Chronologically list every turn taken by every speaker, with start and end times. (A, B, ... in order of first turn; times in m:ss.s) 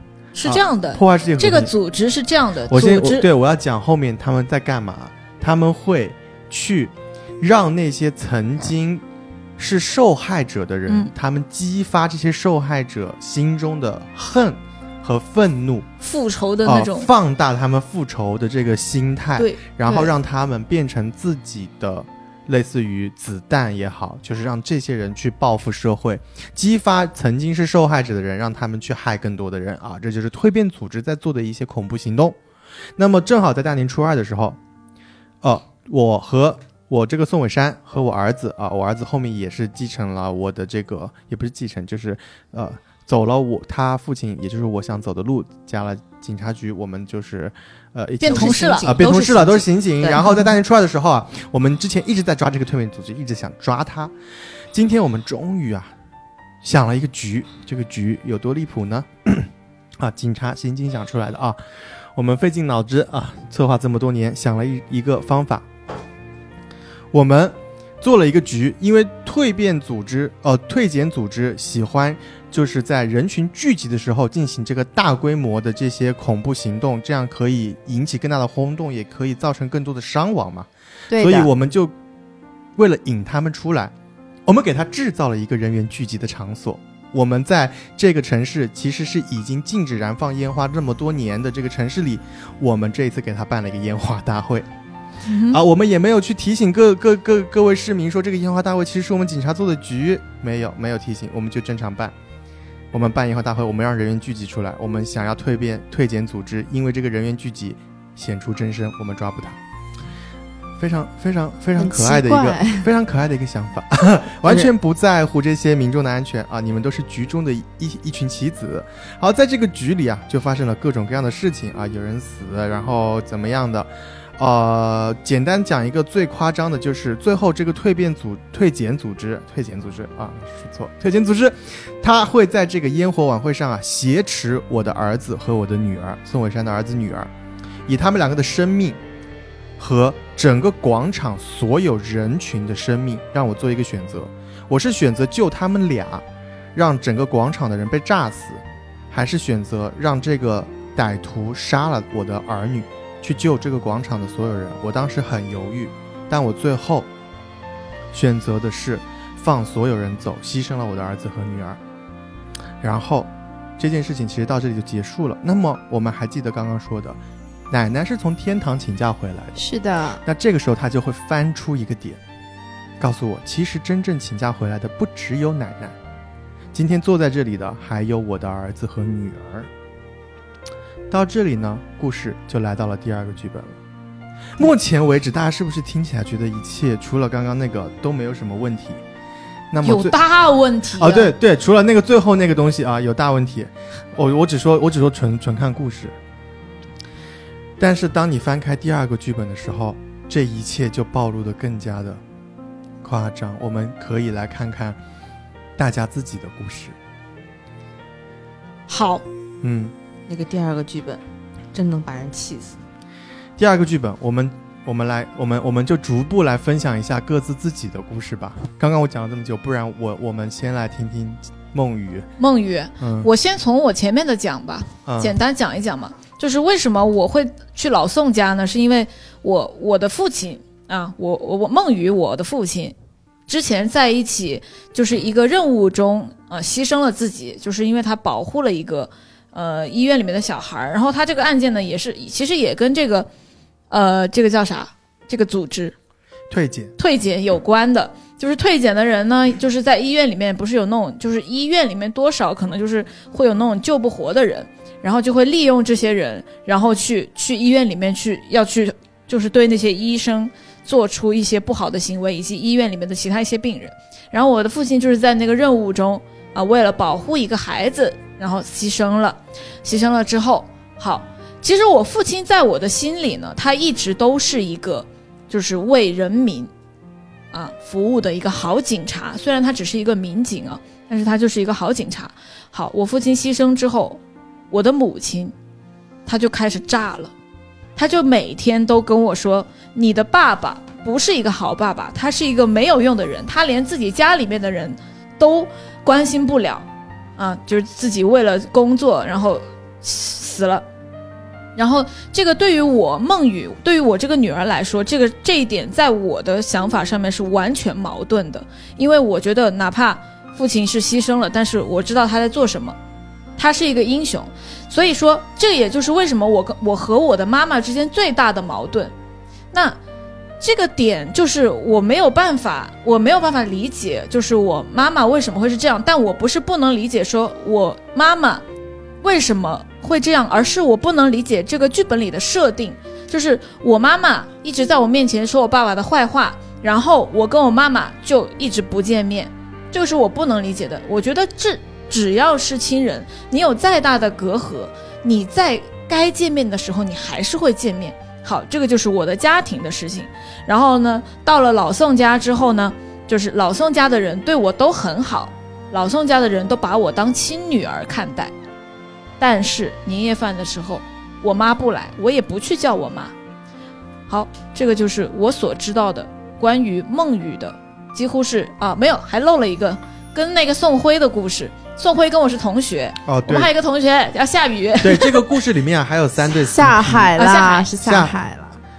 0:00.3-0:03.2 A
0:00.4-0:01.7 B
0:02.7-0:09.0 B
0:09.6-0:15.9 B
0:16.0-0:17.1 A
0:16.6-0:32.4 B
0:19.4-0:20.1 A
0:33.0-0:34.6 B
0:35.4-0:54.1 B
0:48.2-0:49.0 A
0:48.2-0:50.3 C
0:54.7-0:55.9 B
0:56.6-1:01.6 B
1:02.1-1:05.7 B
1:07.1-1:21.9 B
1:21.1-1:21.5 D
1:22.8-1:23.9 B
1:24.4-1:34.7 B
1:35.2-1:35.6 A
1:35.5-1:42.1 B
1:42.9-1:49.6 B
1:50.8-2:17.3 B
1:51.8-1:52.8 D
2:17.8-2:19.0 B
2:19.8-2:37.1 B
2:38.1-2:41.8 B
2:42.8-2:47.2 B
2:47.7-2:49.6 B
2:49.6-2:50.2 D
2:50.2-2:52.2 B
2:53.0-2:56.0 B
2:56.7-2:59.7 B
3:01.1-3:03.8 B
3:04.6-3:09.0 B
3:09.7-3:10.2 B
3:09.8-3:11.3 A
3:11.0-3:16.2 B
3:17.8-3:22.2 B
3:23.0-3:25.0 B
3:25.8-3:27.0 B
3:28.9-3:29.2 A
3:29.6-3:29.9 B
3:30.3-3:31.2 C
3:31.7-3:32.8 C
3:33.6-3:42.3 B
3:42.4-3:52.9 A
3:43.0-3:43.3 B
3:45.0-3:45.4 B
3:53.5-4:03.3 A
4:03.9-4:05.9 A
4:06.5-4:06.9 B
4:07.0-4:36.7 A
4:37.5-4:45.5 A
4:46.2-4:47.3 A
4:48.0-4:56.8 A
4:57.4-5:00.8 A
5:01.8-5:13.0 A
5:13.6-5:19.1 A
5:19.7-5:20.0 A
5:20.6-5:28.6 A
5:29.2-5:58.5 A
5:59.4-6:03.3 A
6:04.3-6:15.4 A
6:13.2-6:13.7 B
6:15.0-6:17.4 B
6:16.6-6:18.7 D
6:17.4-6:17.9 A
6:18.0-6:18.4 B